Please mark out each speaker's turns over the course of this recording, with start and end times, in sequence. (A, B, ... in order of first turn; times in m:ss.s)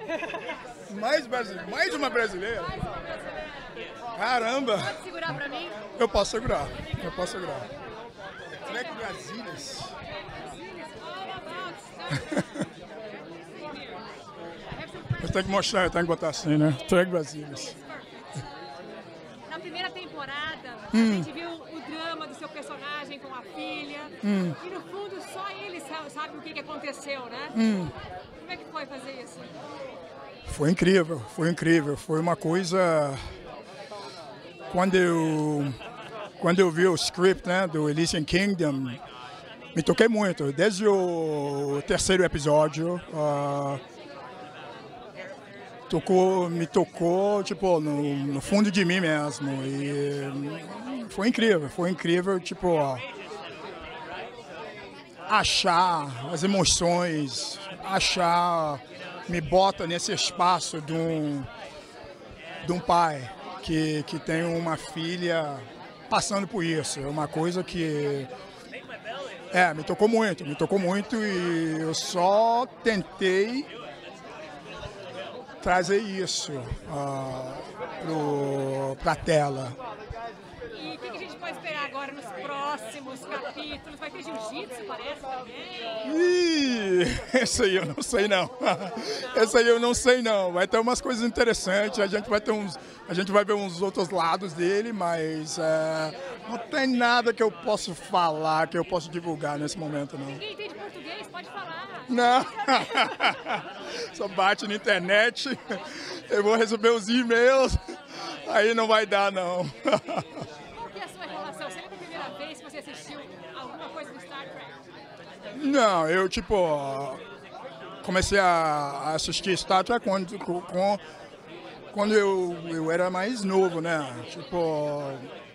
0:00.9-0:02.8 A
0:02.8-0:03.5 B
0:04.2-0:05.0 A
0:04.7-0:05.8 B
0:06.0-0:07.7 A
0:08.6-0:09.9 A
0:10.3-0:12.7 B
0:13.6-0:14.0 B
0:14.7-0:15.7 B
0:15.2-0:17.8 A
0:17.7-0:18.4 B
0:19.5-0:27.6 B
0:20.9-0:21.3 A
0:24.2-0:24.6 A
0:27.5-0:27.9 A
0:28.4-0:29.6 B
0:30.5-0:33.2 A
0:34.7-0:35.8 A
0:36.4-0:39.0 A
0:39.8-0:43.8 A
0:45.9-0:53.0 A
0:55.3-1:01.5 A
1:02.6-1:08.3 A
1:09.5-1:13.7 A
1:15.6-1:19.8 A
1:20.7-1:26.0 B
1:26.0-1:40.4 A
1:40.4-1:43.4 B
1:42.1-1:50.5 A
1:50.8-1:54.8 B
1:55.6-1:57.2 A
1:58.0-2:01.0 A
2:01.9-2:05.3 A